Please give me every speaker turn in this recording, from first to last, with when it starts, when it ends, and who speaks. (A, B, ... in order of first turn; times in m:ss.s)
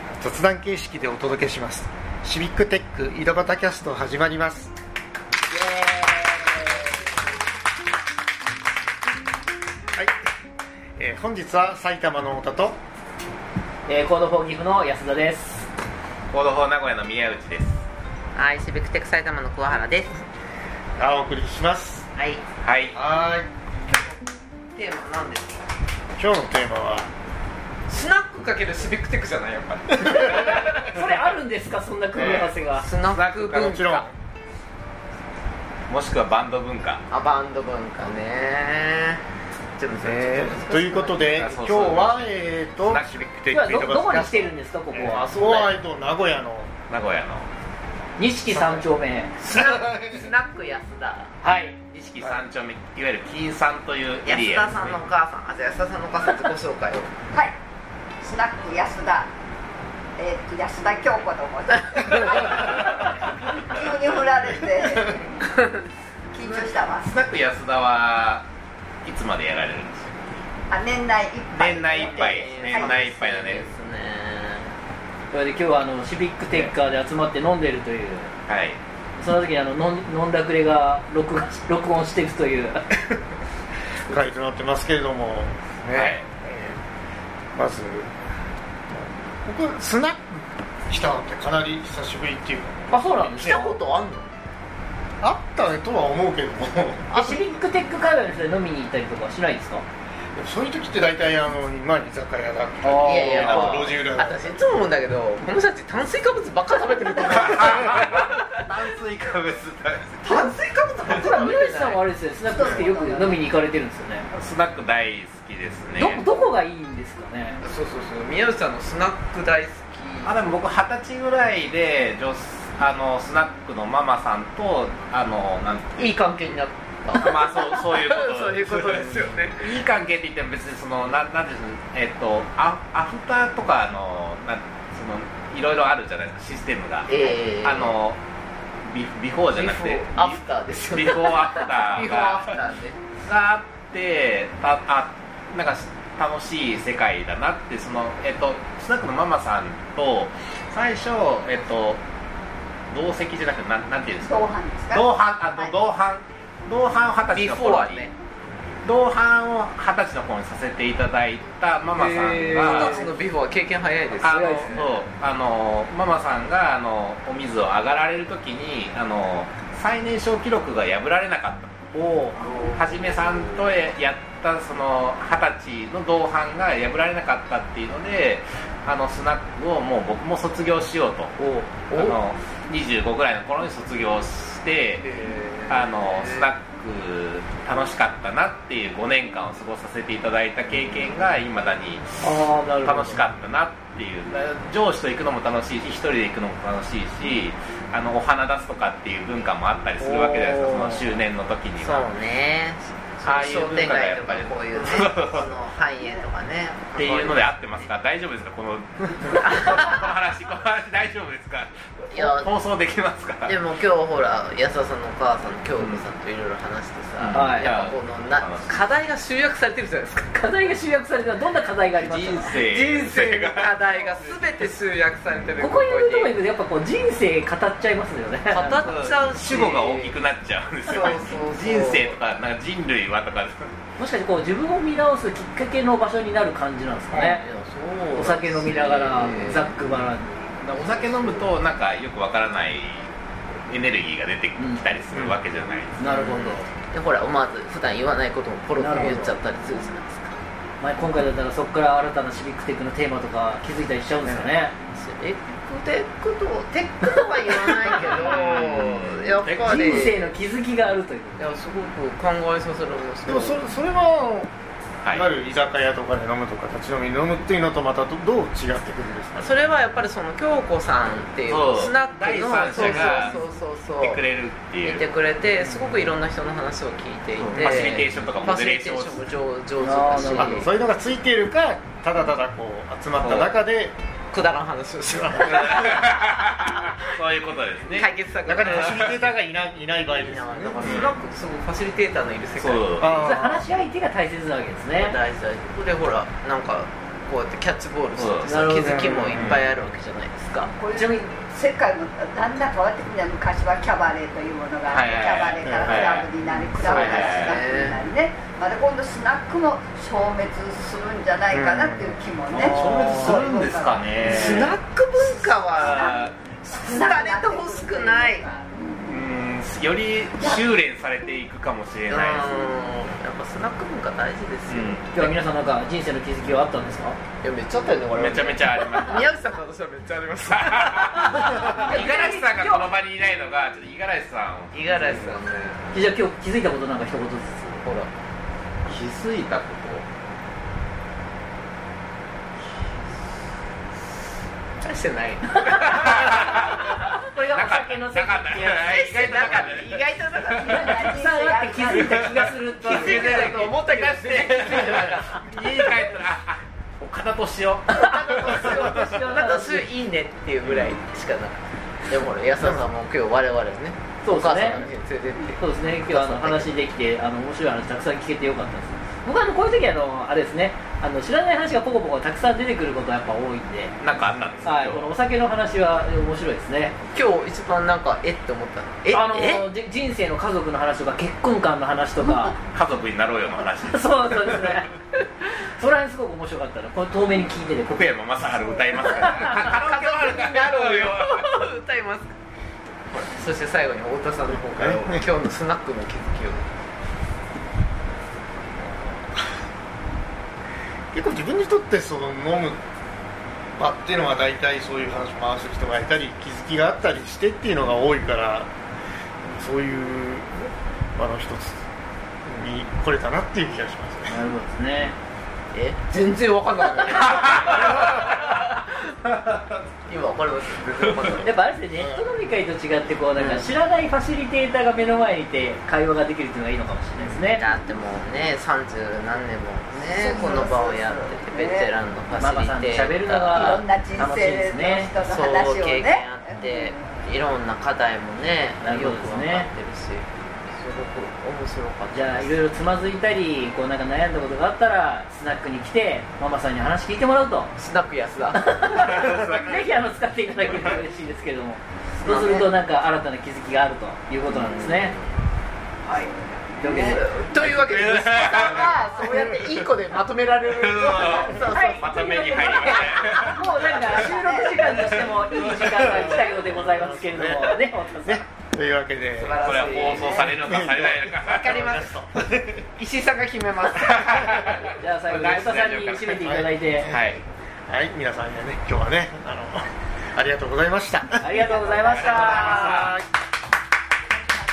0:00.2-0:04.7 A
0:05.5-0:06.9 B
0:11.0-0:12.8 A
0:13.9-0:15.7 B
0:16.3-0:17.8 C
0:18.3-0:20.3 D
0:21.0-0:22.1 A
0:22.2-0:22.4 D
0:22.6-0:23.0 C
0:22.9-0:23.5 A
0:24.7-0:25.6 D
0:26.2-0:27.1 A
0:27.9-0:30.7 D
0:30.8-0:32.8 B
0:32.2-0:32.5 C
0:32.2-0:34.0 D
0:33.1-0:34.1 C
0:33.6-0:34.1 A
0:35.9-0:37.0 C
0:37.1-0:39.2 D
0:39.8-0:41.6 D
0:40.0-0:46.7 A
0:41.4-0:43.3 C
0:43.5-0:45.2 B
0:45.1-0:45.8 D
0:46.9-0:47.5 C
0:48.2-0:49.3 B
0:48.5-0:48.9 A
0:49.4-0:51.3 D
0:51.4-0:51.8 B
0:51.9-0:55.0 C
0:54.2-0:57.1 D
0:58.2-0:59.3 E
1:00.2-1:05.2 E
1:01.8-1:02.4 D
1:06.3-1:07.2 E
1:06.4-1:08.4 C
1:09.0-1:10.1 C
1:10.7-1:13.1 E
1:11.5-1:13.7 C
1:12.0-1:14.8 D
1:15.3-1:18.3 B
1:18.5-1:18.8 C
1:19.2-1:22.8 B
1:24.1-1:26.8 A
1:25.9-1:26.2 C
1:27.5-1:28.2 A
1:28.9-1:33.6 A
1:32.9-1:33.8 B
1:33.3-1:34.3 D
1:35.2-1:37.3 A
1:37.1-1:39.8 B
1:40.3-1:44.6 A
1:42.8-1:43.9 B
1:43.0-1:48.6 D
1:43.4-1:43.8 C
1:47.3-1:50.4 C
1:50.2-1:52.0 D
1:51.1-1:54.3 B
1:52.5-1:53.4 E
1:54.3-1:56.2 C
1:56.0-1:57.6 B
1:57.6-2:00.6 D
2:00.2-2:06.1 C
2:05.9-2:09.8 D
2:07.1-2:18.2 C
2:17.1-2:18.0 D
2:18.8-2:22.6 C
2:19.5-2:23.0 D
2:23.2-2:32.0 C
2:32.9-2:38.1 C
2:34.2-2:35.7 E
2:37.3-2:38.1 D
2:38.8-2:43.0 C
2:41.9-2:43.0 B
2:42.7-2:44.9 D
2:44.2-2:51.7 C
2:44.2-2:44.8 B
2:51.9-2:52.4 B
2:52.4-2:53.8 D
2:52.7-3:01.4 C
3:01.4-3:01.7 B
3:01.9-3:02.2 D
3:01.9-3:05.0 C
3:05.0-3:06.5 D
3:05.7-3:12.3 C
3:10.8-3:11.1 D
3:12.2-3:13.2 B
3:12.8-3:22.1 C
3:20.0-3:21.0 B
3:21.8-3:27.9 D
3:23.2-3:25.5 C
3:26.9-3:33.6 C
3:29.4-3:29.9 D
3:32.1-3:32.5 D
3:33.4-3:40.5 D
3:35.7-3:36.0 C
3:37.2-3:38.8 C
3:37.3-3:37.7 B
3:40.3-3:42.9 B
3:42.0-3:43.8 C
3:42.7-3:46.3 D
3:45.6-3:48.9 B
3:48.5-3:50.2 D
3:48.8-3:53.7 C
3:50.9-3:52.2 D
3:54.0-3:57.4 B
3:57.1-3:59.8 D
3:58.2-4:00.5 B
4:00.6-4:03.1 C
4:03.7-4:06.1 C
4:04.6-4:04.8 B
4:06.0-4:06.7 B
4:06.0-4:10.4 D
4:08.8-4:09.3 B
4:10.8-4:14.7 B
4:14.9-4:20.3 D
4:17.5-4:18.2 B
4:17.9-4:20.1 C
4:19.6-4:21.4 B
4:21.4-4:23.6 D
4:23.3-4:24.5 A
4:25.1-4:29.5 A
4:29.4-4:34.2 D
4:31.5-4:33.5 C
4:34.0-4:35.1 C
4:34.8-4:40.7 D
4:35.6-4:35.9 A
4:37.4-4:39.3 C
4:39.8-4:40.7 B
4:40.4-4:44.0 A
4:43.2-4:43.6 C
4:44.3-4:47.1 D
4:45.2-4:46.0 A
4:45.5-4:49.1 C
4:47.9-4:49.2 D
4:48.4-4:51.1 A
4:50.1-4:53.0 D
4:50.8-4:51.1 C
4:52.6-4:53.2 C
4:53.0-4:53.7 A
4:53.2-4:55.2 B
4:55.0-5:00.7 D
4:58.2-4:58.6 C
4:58.4-4:59.5 B
4:58.8-4:59.6 A
4:59.3-4:59.7 C
5:00.8-5:14.6 E
5:00.9-5:01.2 B
5:04.9-5:07.6 C
5:05.6-5:06.2 A
5:07.0-5:08.0 D
5:11.5-5:13.1 A
5:12.5-5:14.8 C
5:14.3-5:18.5 D
5:15.4-5:19.2 E
5:15.8-5:16.4 C
5:19.0-5:22.6 C
5:20.4-5:20.7 E
5:22.1-5:25.1 D
5:24.7-5:25.3 C
5:25.1-5:27.2 B
5:27.4-5:31.9 D
5:28.1-5:29.4 C
5:30.5-5:35.4 C
5:31.5-5:32.9 B
5:34.7-5:35.9 D
5:35.9-5:37.8 B
5:37.8-5:38.1 D
5:38.9-5:40.1 C
5:44.8-5:47.1 D
5:45.9-5:46.8 C
5:46.2-5:49.6 B
5:47.5-5:51.2 C
5:48.7-5:50.6 D
5:50.3-5:52.6 E
5:50.6-5:53.6 B
5:51.9-5:52.3 C
5:52.8-5:55.6 D
5:52.8-5:59.0 C
5:57.9-5:59.9 B
5:57.9-6:06.8 D
6:04.2-6:13.9 B
6:14.0-6:15.1 C
6:14.6-6:16.9 B
6:17.1-6:19.7 D
6:19.1-6:22.6 B
6:22.7-6:24.8 C
6:23.9-6:24.9 B
6:25.8-6:28.2 B
6:27.9-6:31.5 C
6:29.0-6:29.7 B
6:29.0-6:32.4 D
6:33.1-6:36.7 D
6:34.5-6:35.2 A
6:38.8-6:39.4 A
6:41.1-6:42.8 A
6:43.8-6:48.7 A
6:49.4-6:51.8 A
6:52.4-6:54.4 A
6:54.3-6:55.2 B
6:55.7-7:01.6 D
7:01.4-7:07.6 B
7:01.9-7:02.3 A
7:03.4-7:03.7 D
7:07.6-7:13.8 D
7:09.9-7:11.9 E
7:12.4-7:15.2 B
7:13.5-7:17.2 E
7:15.2-7:22.6 D
7:18.8-7:19.7 B
7:22.1-7:27.7 B
7:27.8-7:29.1 D
7:28.5-7:35.2 B
7:29.0-7:29.8 C
7:32.2-7:32.7 D
7:34.5-7:35.3 D
7:36.8-7:37.2 B
7:36.8-7:43.5 D
7:37.6-7:39.0 C
7:40.7-7:43.8 C
7:41.2-7:48.4 B
7:43.9-7:45.3 E
7:46.0-7:52.9 A
7:49.4-7:50.5 D
7:49.6-7:51.7 C
7:51.6-7:52.2 D
7:53.0-7:54.4 D
7:53.9-7:57.4 C
7:54.8-7:57.1 B
7:56.4-7:57.3 A
7:57.9-8:03.2 A
8:01.4-8:03.1 B
8:02.1-8:03.2 C